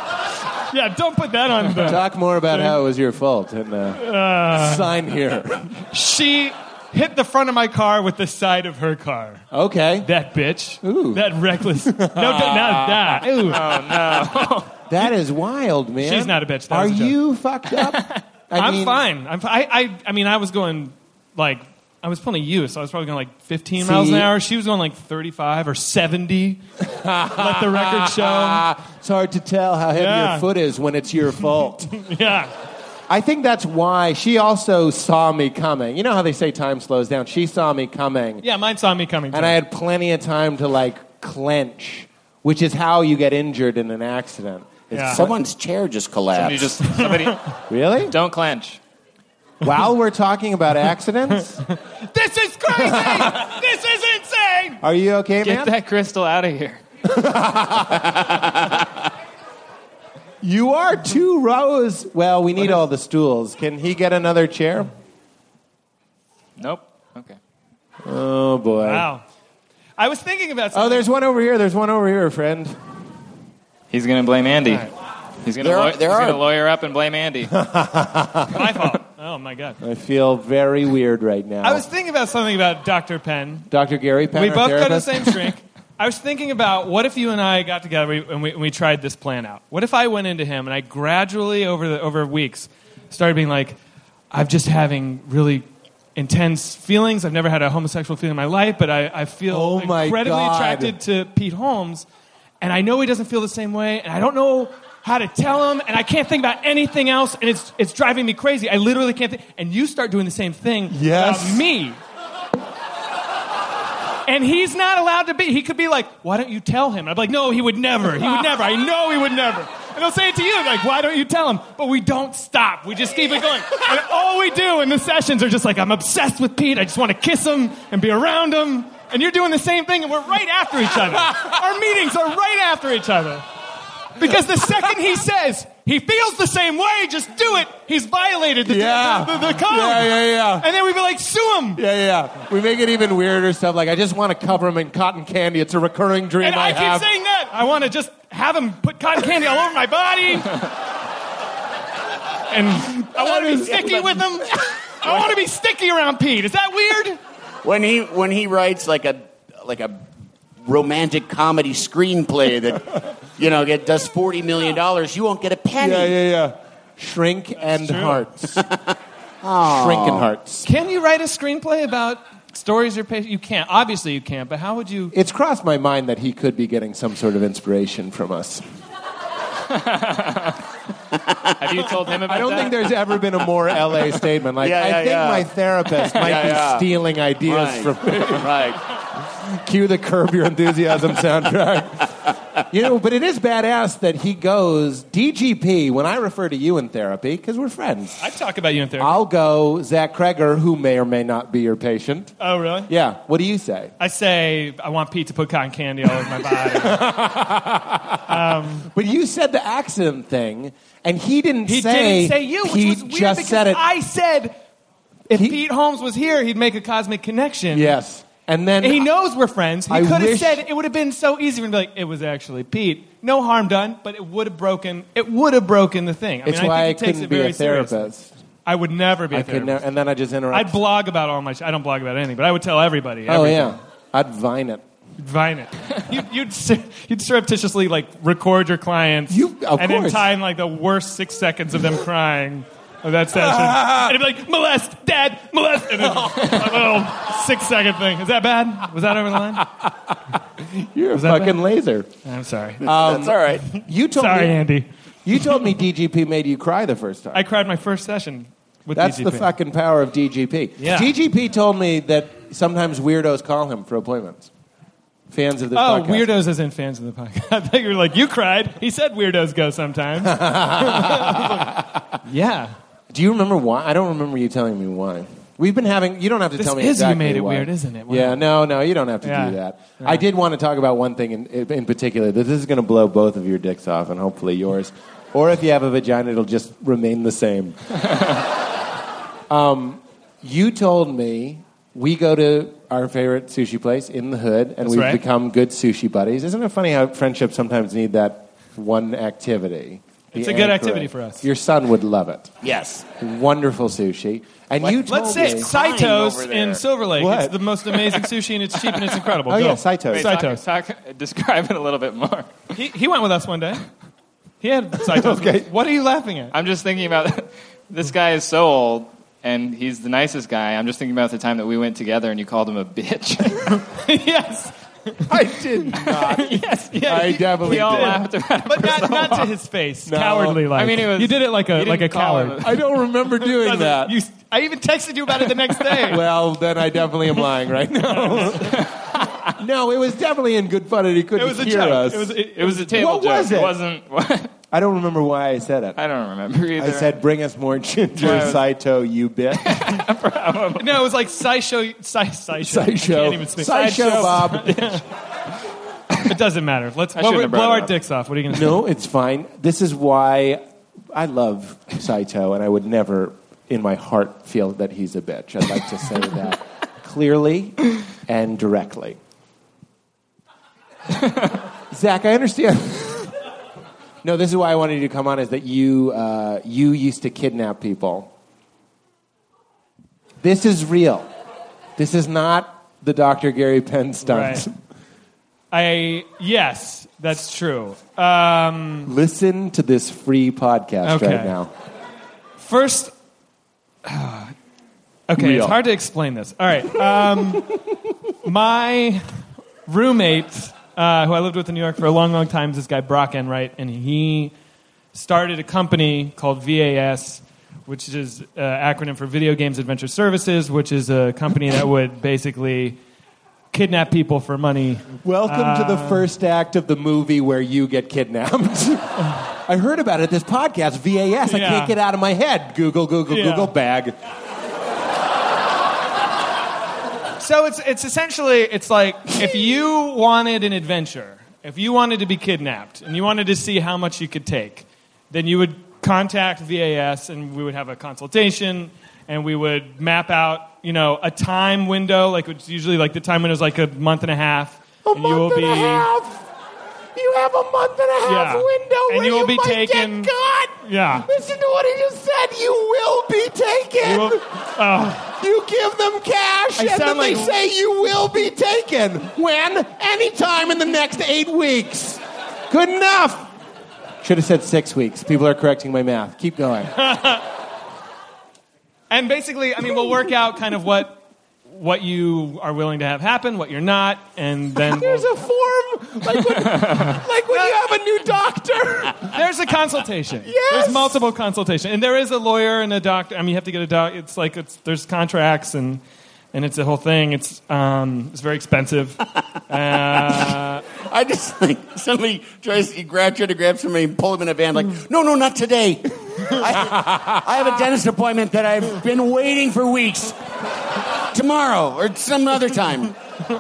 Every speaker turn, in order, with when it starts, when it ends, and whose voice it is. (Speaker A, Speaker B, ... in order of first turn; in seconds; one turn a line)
Speaker A: 0.7-2.8
Speaker B: 1.8-5.7
Speaker A: 4.0-4.9
Speaker A: 5.9-9.4
Speaker B: 9.5-10.1
Speaker A: 10.0-13.6
Speaker B: 10.8-11.2
Speaker B: 11.8-13.3
Speaker C: 13.3-14.7
Speaker B: 14.9-19.0
Speaker A: 16.0-17.2
Speaker A: 18.6-26.6
Speaker B: 23.8-24.3
Speaker B: 26.8-31.9
Speaker A: 27.3-28.6
Speaker A: 29.9-30.5
Speaker A: 31.9-32.5
Speaker B: 33.1-38.5
Speaker A: 38.4-39.5
Speaker B: 39.3-45.3
Speaker A: 44.9-45.2
Speaker D: 45.1-46.8
Speaker C: 46.3-47.4
Speaker A: 46.9-47.4
Speaker B: 47.7-48.1
Speaker C: 48.1-48.8
Speaker B: 49.6-51.6
Speaker A: 52.0-54.8
Speaker B: 52.8-53.4
Speaker B: 54.8-55.7
Speaker C: 55.4-56.8
Speaker B: 57.0-58.2
Speaker D: 58.1-58.7
Speaker B: 60.4-64.9
Speaker C: 66.6-67.4
Speaker B: 68.0-69.1
Speaker A: 68.8-69.2
Speaker A: 70.0-71.0
Speaker B: 70.7-72.8
Speaker C: 73.9-74.9
Speaker C: 75.4-77.5
Speaker D: 75.6-76.4
Speaker B: 77.5-78.5
Speaker A: 78.5-79.8
Speaker B: 79.8-81.9
Speaker A: 81.6-83.7
Speaker B: 83.7-85.5
Speaker A: 84.3-93.8
Speaker A: 94.3-102.1
Speaker B: 99.5-101.0
Speaker A: 102.6-112.0
Speaker B: 110.9-111.7
Speaker A: 114.3-133.4
Speaker A: 134.2-141.8
Speaker B: 138.6-140.7
Speaker B: 141.7-147.1
Speaker A: 146.4-150.6
Speaker A: 152.5-157.2
Speaker B: 153.1-154.1
Speaker D: 157.6-160.0
Speaker D: 160.6-166.2
Speaker B: 165.8-168.6
Speaker A: 167.6-168.3
Speaker D: 168.6-170.3
Speaker B: 169.6-170.7
Speaker A: 170.6-175.1
Speaker B: 175.1-178.6
Speaker C: 179.7-180.5
Speaker C: 181.6-182.9
Speaker B: 182.3-188.6
Speaker D: 184.6-186.9
Speaker D: 187.4-188.8
Speaker B: 189.3-192.1
Speaker B: 192.7-198.2
Speaker A: 198.2-199.2
Speaker B: 199.0-202.3
Speaker A: 202.4-202.9
Speaker B: 202.9-203.9
Speaker A: 204.0-207.1
Speaker B: 206.7-213.8
Speaker A: 208.3-208.9
Speaker A: 211.7-214.6
Speaker A: 215.3-217.9
Speaker B: 215.3-215.6
Speaker B: 217.7-219.1
Speaker A: 218.8-228.1
Speaker B: 219.9-220.6
Speaker B: 226.4-228.3
Speaker A: 228.7-229.8
Speaker B: 229.3-230.8
Speaker A: 230.5-233.8
Speaker B: 233.3-234.8
Speaker A: 235.2-249.7
Speaker B: 239.3-240.3
Speaker B: 243.3-244.2
Speaker B: 250.6-252.1
Speaker A: 251.1-251.6
Speaker A: 252.2-252.9
Speaker B: 252.8-254.6
Speaker D: 252.8-253.6
Speaker A: 254.1-254.9
Speaker B: 255.2-257.4
Speaker A: 257.3-259.5
Speaker B: 258.9-264.5
Speaker A: 260.8-261.1
Speaker B: 265.3-266.3
Speaker A: 265.7-272.7
Speaker B: 270.2-271.9
Speaker B: 273.1-287.8
Speaker A: 276.6-278.4
Speaker A: 279.2-280.2
Speaker B: 289.5-302.5
Speaker A: 294.8-295.2
Speaker A: 300.3-301.4
Speaker D: 302.6-303.1
Speaker B: 303.1-305.7
Speaker D: 304.8-306.8
Speaker A: 305.1-310.6
Speaker B: 307.1-307.6
Speaker B: 309.5-310.3
Speaker C: 310.1-312.7
Speaker A: 312.7-313.8
Speaker A: 314.6-316.5
Speaker B: 315.1-315.7
Speaker C: 316.5-323.8
Speaker A: 323.7-324.7
Speaker B: 325.3-328.2
Speaker A: 326.0-332.7
Speaker C: 326.3-329.5
Speaker B: 330.1-330.6
Speaker C: 330.7-332.9
Speaker B: 332.6-334.1
Speaker A: 333.4-336.3
Speaker B: 335.9-338.8
Speaker A: 338.1-338.8
Speaker B: 339.6-342.4
Speaker A: 341.4-343.2
Speaker C: 342.6-344.5
Speaker B: 342.9-343.8
Speaker B: 344.7-346.0
Speaker C: 345.9-347.2
Speaker B: 346.8-349.8
Speaker C: 348.2-348.6
Speaker C: 349.6-351.0
Speaker A: 350.8-355.0
Speaker B: 352.6-354.8
Speaker C: 354.5-354.8
Speaker A: 356.3-358.8
Speaker C: 357.1-357.9
Speaker B: 358.5-360.6
Speaker B: 361.1-369.2
Speaker B: 371.9-373.3
Speaker B: 374.2-378.3
Speaker B: 380.4-381.3
Speaker B: 382.0-384.7
Speaker A: 384.2-384.6
Speaker A: 385.7-389.1
Speaker B: 389.1-391.7
Speaker A: 391.0-391.6
Speaker A: 392.6-393.1
Speaker A: 394.1-394.5
Speaker A: 395.3-397.7
Speaker B: 395.4-395.8
Speaker A: 398.4-399.2
Speaker A: 399.9-404.5
Speaker A: 405.1-413.0
Speaker A: 413.7-416.3
Speaker B: 415.2-424.1
Speaker A: 421.4-421.9
Speaker A: 423.3-423.7
Speaker A: 427.4-446.1
Speaker B: 445.1-446.4
Speaker B: 447.1-454.4
Speaker A: 448.2-451.3
Speaker A: 454.0-455.3
Speaker B: 455.2-463.5
Speaker A: 456.8-457.6
Speaker B: 464.2-466.9
Speaker A: 466.9-467.4
Speaker A: 469.1-475.3
Speaker B: 474.8-479.3
Speaker A: 477.5-477.8
Speaker A: 479.2-486.0
Speaker B: 480.4-481.2
Speaker A: 486.5-490.8
Speaker D: 490.9-500.4
Speaker B: 496.8-497.4
Speaker D: 501.3-503.1